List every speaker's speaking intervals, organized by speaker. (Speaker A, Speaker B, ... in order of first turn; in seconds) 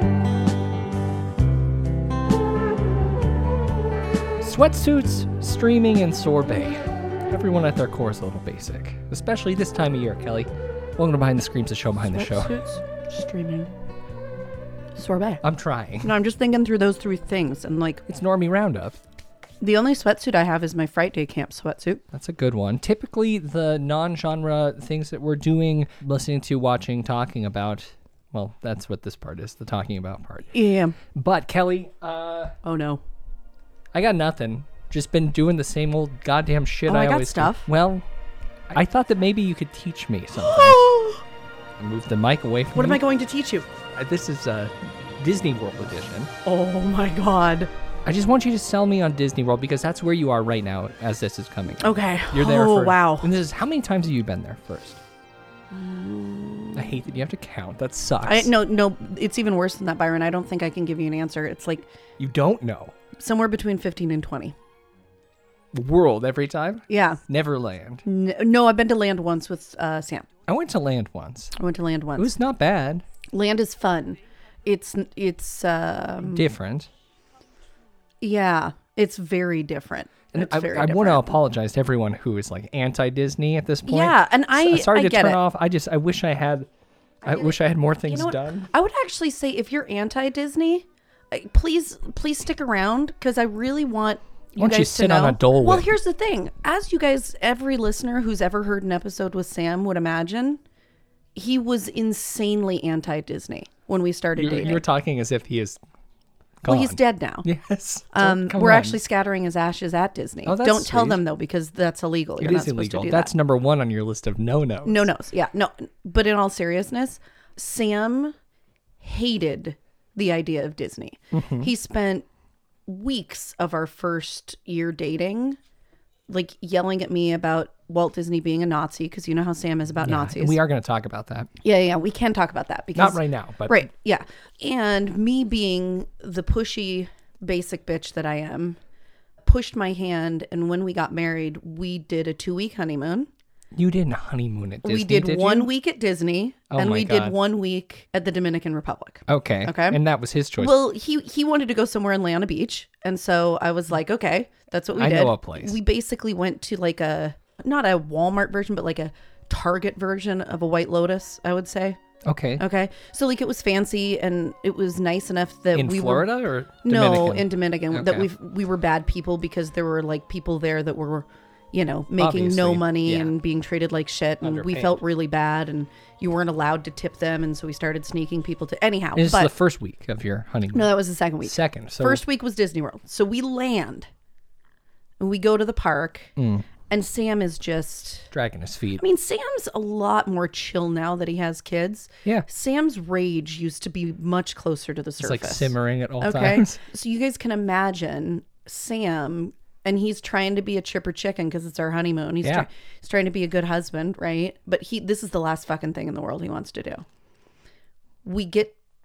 Speaker A: 4.4-12.5, 15.4-16.1, 18.1-19.0, 22.1-30.5, 31.1-32.5, 33.9-38.0, 38.7-40.9, 41.8-43.0, 43.9-46.3, 48.0-55.0, 56.7-58.5, 62.2-62.9, 65.7-68.0, 70.5-71.5, 72.2-73.0, 76.2-76.9, 80.3-86.7, 87.2-88.7, 94.6-95.9, 104.4-105.8, 106.6-109.0, 110.4-111.2, 112.4-115.1, 121.3-121.7, 130.0-131.5, 132.9-133.8, 143.7-145.7, 146.7-147.3, 149.3-150.8, 154.9-155.8, 162.2-162.6, 165.7-168.3, 172.2-173.3, 174.4-175.0, 179.1-182.2, 186.4-186.7, 188.3-189.0, 195.2-196.8
Speaker B: 12.0-13.7, 14.9-15.4, 16.0-18.0, 19.6-22.0, 30.5-30.9, 32.6-33.0, 36.9-37.7, 40.3-41.2, 42.7-43.7, 46.4-47.7, 51.8-53.3, 55.7-57.0, 58.2-61.9, 63.2-64.5, 66.9-67.2, 68.0-70.3, 71.5-72.3, 73.3-76.5, 78.2-81.3, 83.8-85.4, 87.3-100.6, 101.3-104.8, 106.7-107.5, 108.1-113.3, 114.8-118.3, 119.0-122.2, 122.9-125.6, 126.3-130.6, 131.6-138.8, 139.4-143.3, 144.8-150.0, 150.6-162.0, 162.6-179.5, 180.7-184.1, 185.2-186.3, 186.9-188.3, 189.0-207.0, 208.2-208.8